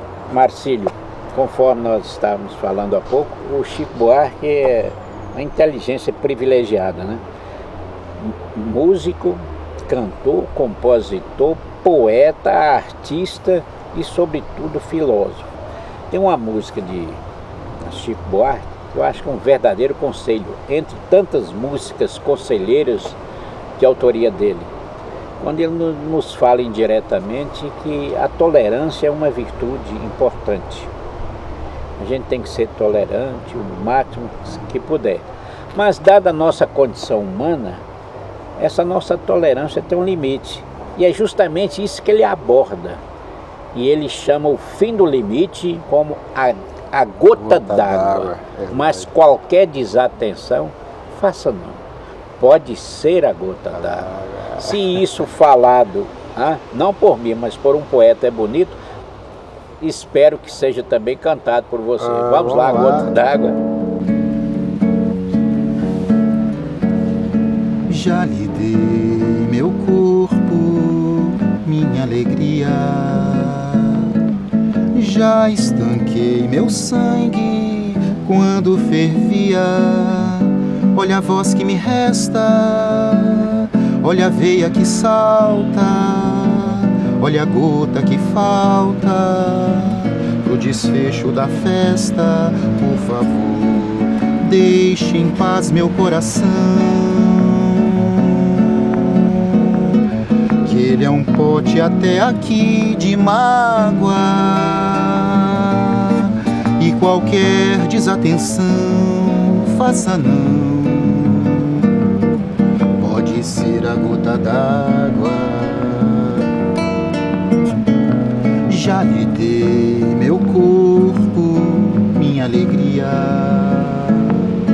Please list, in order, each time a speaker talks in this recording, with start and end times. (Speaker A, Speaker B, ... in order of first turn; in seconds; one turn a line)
Speaker A: 0.3-7.2
Speaker A: 8.2-15.5
Speaker A: 16.1-17.2
Speaker A: 17.8-23.2
Speaker A: 23.8-24.7
Speaker A: 25.4-30.9
Speaker A: 32.0-37.8
Speaker A: 38.6-43.0
Speaker A: 43.7-51.8
Speaker B: 47.4-49.1
Speaker A: 52.4-58.8
Speaker B: 53.7-54.8
Speaker A: 59.8-63.6
Speaker B: 62.0-63.2
Speaker B: 67.9-74.2
Speaker B: 74.9-100.0
Speaker B: 100.6-112.0
Speaker B: 113.0-116.5
Speaker B: 118.7-124.5